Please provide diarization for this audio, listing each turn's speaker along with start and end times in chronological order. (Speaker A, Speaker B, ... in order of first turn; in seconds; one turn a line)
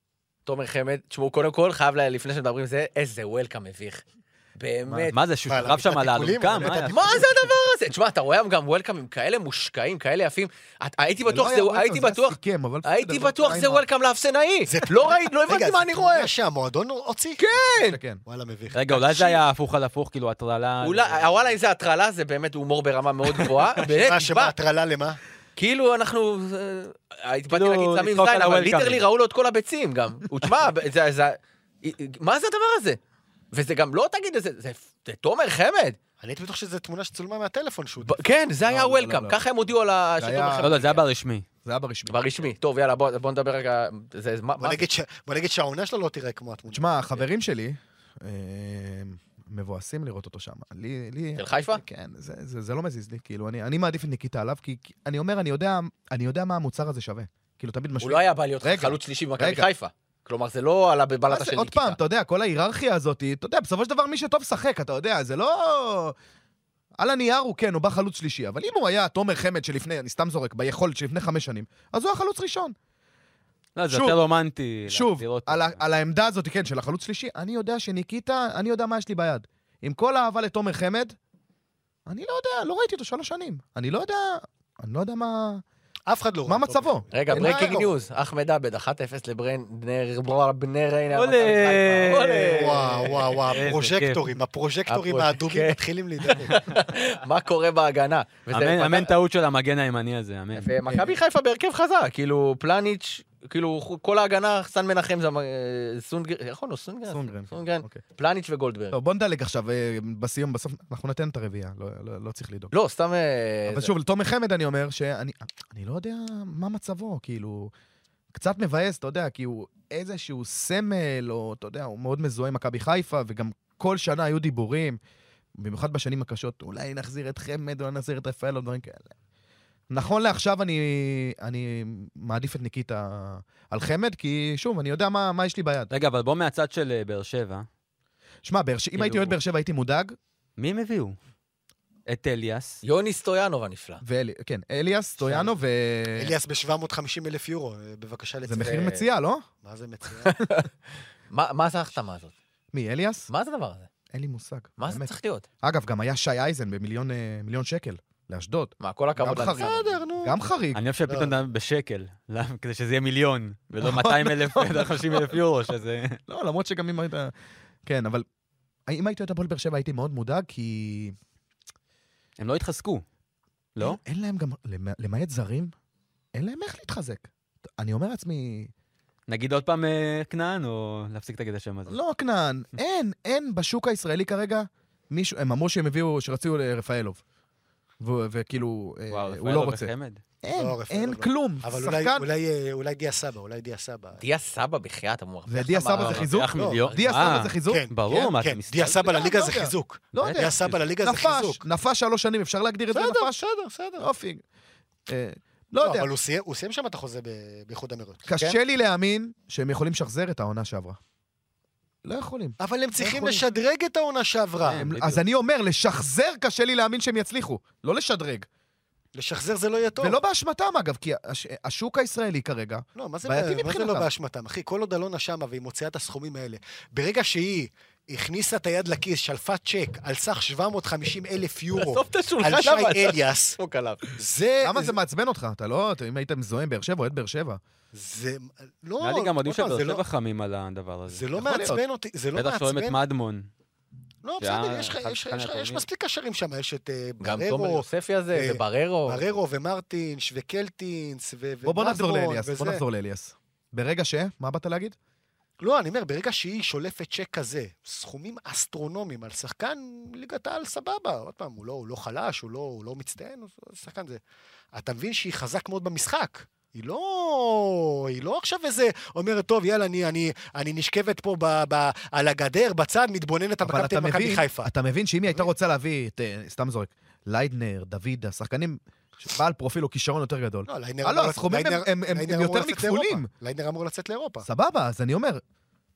Speaker A: 0.5-4.0
Speaker A: 4.6-5.2
Speaker B: 5.1-7.3
Speaker C: 5.5-7.2
Speaker D: 6.6-7.2
Speaker A: 6.9-16.3
Speaker D: 11.2-13.8
Speaker C: 14.7-17.4
Speaker A: 17.4-18.0
Speaker D: 17.8-18.2
Speaker C: 18.2-19.4
Speaker B: 18.7-21.5
Speaker A: 20.8-24.5
Speaker C: 23.8-25.2
Speaker A: 25.6-33.0
Speaker B: 27.5-29.0
Speaker A: 33.5-36.0
Speaker C: 36.2-38.2
Speaker A: 38.0-41.0
Speaker D: 38.6-39.4
Speaker D: 40.2-40.7
Speaker B: 40.6-41.4
Speaker D: 41.6-42.5
Speaker A: 42.1-44.9
Speaker C: 44.6-47.0
Speaker D: 46.7-59.7
Speaker A: 51.4-51.8
Speaker A: 58.0-62.0
Speaker D: 61.3-66.2
Speaker D: 67.0-72.7
Speaker B: 73.8-75.8
Speaker D: 73.9-74.2
Speaker D: 74.9-81.1
Speaker D: 82.1-85.6
Speaker C: 86.1-87.9
Speaker D: 86.5-87.9
Speaker A: 87.1-93.5
Speaker B: 91.1-92.6
Speaker C: 92.4-96.6
Speaker B: 93.5-94.2
Speaker A: 94.9-99.1
Speaker B: 98.5-100.7
Speaker A: 100.5-109.0
Speaker D: 100.9-101.1
Speaker D: 107.1-108.0
Speaker D: 108.9-112.7
Speaker A: 112.7-113.9
Speaker D: 113.7-117.7
Speaker D: 118.3-125.0
Speaker D: 125.6-129.1
Speaker D: 129.9-135.9
Speaker B: 135.9-137.7
Speaker D: 138.4-140.1
Speaker B: 138.9-139.3
Speaker B: 140.6-141.2
Speaker B: 142.1-142.8
Speaker A: 142.8-144.0
Speaker D: 144.0-146.3
Speaker A: 145.2-145.5
Speaker C: 146.2-149.0
Speaker D: 148.4-149.4
Speaker A: 148.6-149.0
Speaker C: 149.6-150.4
Speaker A: 150.2-150.7
Speaker A: 151.3-152.3
Speaker D: 152.7-153.3
Speaker A: 153.3-153.9
Speaker D: 154.1-160.8
Speaker A: 154.8-155.4
Speaker A: 158.8-160.0
Speaker C: 159.3-160.4
Speaker B: 160.7-166.2
Speaker C: 161.1-161.3
Speaker D: 163.8-165.4
Speaker D: 166.3-167.3
Speaker D: 167.8-168.2
Speaker D: 168.9-171.2
Speaker B: 172.4-173.0
Speaker B: 173.7-174.0
Speaker D: 173.8-175.7
Speaker D: 176.3-178.7
Speaker B: 179.3-182.0
Speaker D: 181.9-187.2
Speaker D: 188.0-192.2
Speaker B: 189.1-190.2
Speaker C: 190.5-194.2
Speaker A: 194.2-197.0
Speaker D: 195.5-197.9
Speaker B: 196.0-199.1
Speaker C: 196.6-201.6
Speaker D: 198.9-203.4
Speaker B: 200.2-200.7
Speaker C: 202.9-204.1
Speaker D: 204.0-204.4
Speaker D: 205.1-206.1
Speaker C: 205.8-208.5
Speaker D: 208.3-211.0
Speaker D: 212.0-213.5
Speaker C: 212.6-214.8
Speaker B: 214.6-215.2
Speaker D: 214.7-218.5
Speaker C: 219.1-220.2
Speaker D: 220.0-224.1
Speaker C: 222.9-233.6
Speaker A: 231.7-234.1
Speaker C: 234.2-235.0
Speaker D: 234.6-237.6
Speaker C: 237.9-240.0
Speaker B: 239.0-241.3
Speaker C: 241.1-243.0
Speaker D: 241.4-241.8
Speaker B: 242.3-243.5
Speaker C: 244.2-252.8
Speaker B: 244.4-245.8
Speaker A: 247.2-249.2
Speaker D: 251.6-254.9
Speaker C: 255.6-264.2
Speaker C: 264.7-274.7
Speaker D: 273.6-283.3
Speaker C: 280.7-284.4
Speaker D: 284.4-285.4